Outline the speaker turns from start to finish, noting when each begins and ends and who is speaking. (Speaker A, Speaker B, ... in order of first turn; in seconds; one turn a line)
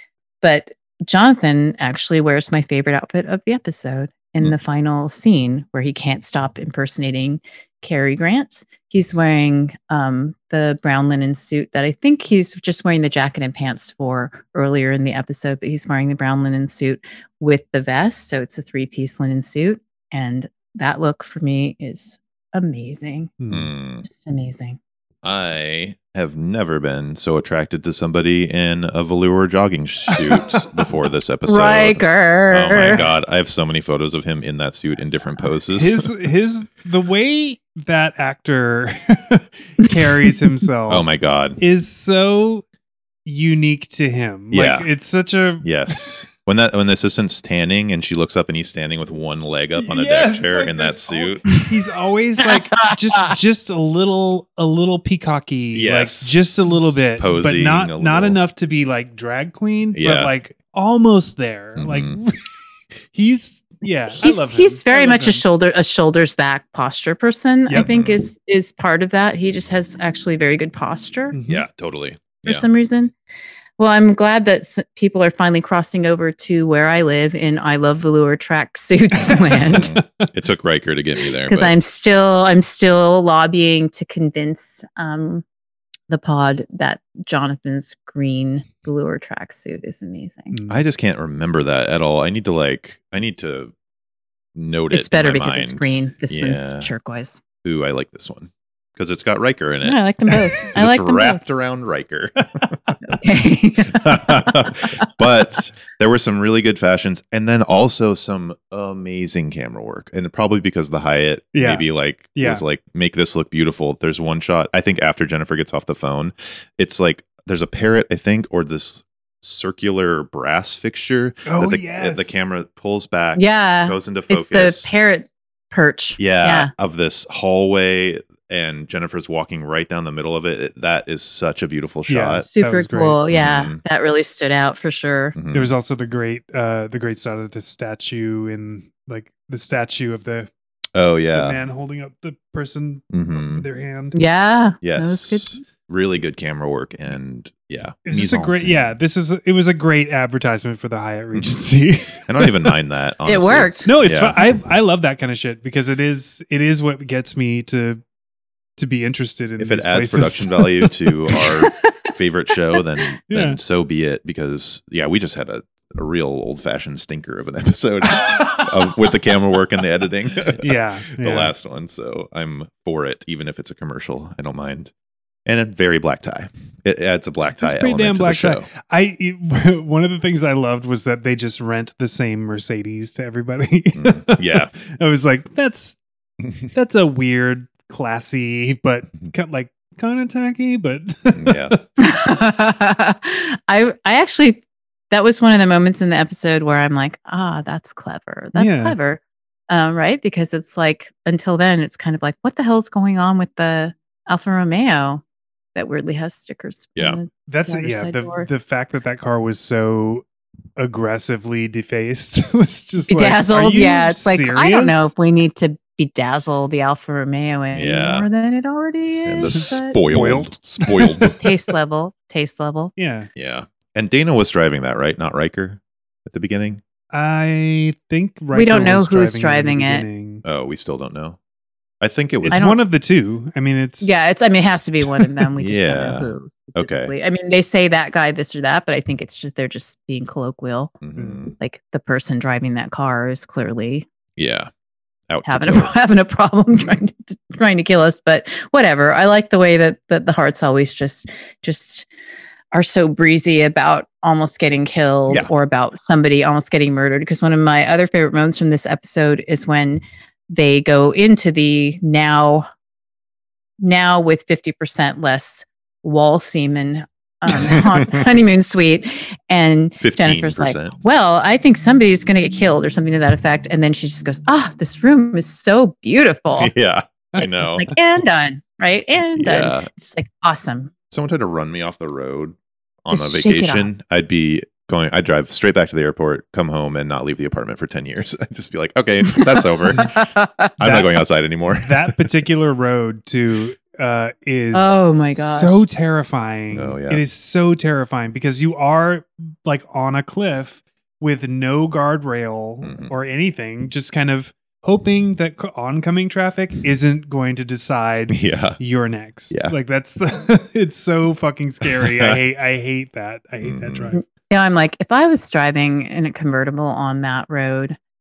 Speaker A: 0.4-23.3
Speaker B: 23.4-23.7
Speaker C: 23.5-24.1
Speaker A: 24.0-24.8
Speaker C: 25.2-36.1
Speaker A: 31.5-33.0
Speaker B: 35.7-42.6
Speaker C: 40.9-41.6
Speaker B: 43.2-46.1
Speaker C: 44.5-44.9
Speaker C: 45.6-51.5
Speaker B: 49.8-65.4
Speaker A: 52.7-53.3
Speaker C: 55.7-58.4
Speaker C: 59.9-60.3
Speaker C: 61.8-62.2
Speaker A: 64.1-71.3
Speaker C: 67.7-68.2
Speaker B: 71.3-71.6
Speaker C: 71.5-72.7
Speaker A: 72.4-73.1
Speaker A: 73.8-79.9
Speaker B: 79.5-80.3
Speaker C: 79.7-81.7
Speaker A: 81.5-85.4
Speaker A: 86.1-90.5
Speaker B: 90.5-90.8
Speaker C: 90.7-93.7
Speaker C: 94.5-96.9
Speaker A: 94.9-97.4
Speaker C: 97.6-100.0
Speaker A: 99.8-101.4
Speaker C: 100.6-102.8
Speaker A: 103.0-105.1
Speaker C: 103.9-124.9
Speaker B: 111.5-112.6
Speaker B: 121.4-122.4
Speaker A: 123.3-126.7
Speaker C: 126.2-132.4
Speaker B: 132.1-133.2
Speaker A: 132.2-135.3
Speaker C: 133.3-133.8
Speaker C: 135.3-135.7
Speaker B: 135.5-140.5
Speaker C: 140.9-141.6
Speaker B: 141.3-144.2
Speaker C: 143.1-143.7
Speaker A: 144.1-145.6
Speaker C: 144.8-148.9
Speaker B: 148.1-152.7
Speaker C: 151.3-151.6
Speaker C: 152.2-154.4
Speaker A: 153.2-153.9
Speaker B: 153.8-158.0
Speaker B: 158.8-161.5
Speaker C: 159.6-174.9
Speaker B: 163.3-163.6
Speaker B: 170.6-171.5
Speaker C: 175.4-178.7
Speaker B: 177.6-186.0
Speaker C: 183.9-184.7
Speaker B: 186.7-191.8
Speaker C: 191.3-191.7
Speaker A: 192.0-205.2
Speaker B: 198.5-198.9
Speaker A: 205.7-208.5
Speaker B: 207.5-210.2
Speaker B: 210.8-215.1
Speaker A: 213.1-220.0
Speaker C: 217.7-218.3
Speaker C: 219.2-221.4
Speaker B: 219.4-221.5
Speaker A: 221.4-222.9
Speaker B: 223.0-223.3
Speaker C: 223.3-226.8
Speaker B: 227.1-230.4
Speaker A: 228.5-230.1
Speaker C: 230.4-231.4
Speaker C: 232.0-232.7
Speaker B: 232.4-234.2
Speaker A: 232.5-232.8
Speaker A: 234.0-240.9
Speaker C: 235.6-237.1
Speaker C: 241.0-241.5
Speaker A: 241.6-244.1
Speaker C: 244.4-244.7
Speaker C: 245.3-245.9
Speaker A: 245.4-252.1
Speaker A: 252.7-262.7
Speaker A: 263.8-276.7
Speaker C: 267.5-268.2
Speaker C: 270.0-270.9
Speaker C: 276.6-277.9
Speaker A: 277.7-280.9
Speaker C: 279.4-279.9
Speaker C: 281.1-292.3
Speaker A: 283.1-283.9
Speaker A: 289.3-290.7
Speaker B: 290.8-291.1
Speaker B: 291.8-314.2
Speaker A: 294.7-295.8
Speaker C: 296.7-297.2
Speaker C: 302.8-303.1
Speaker C: 308.3-308.8
Speaker C: 311.9-312.4
Speaker C: 313.6-314.1
Speaker A: 314.1-318.0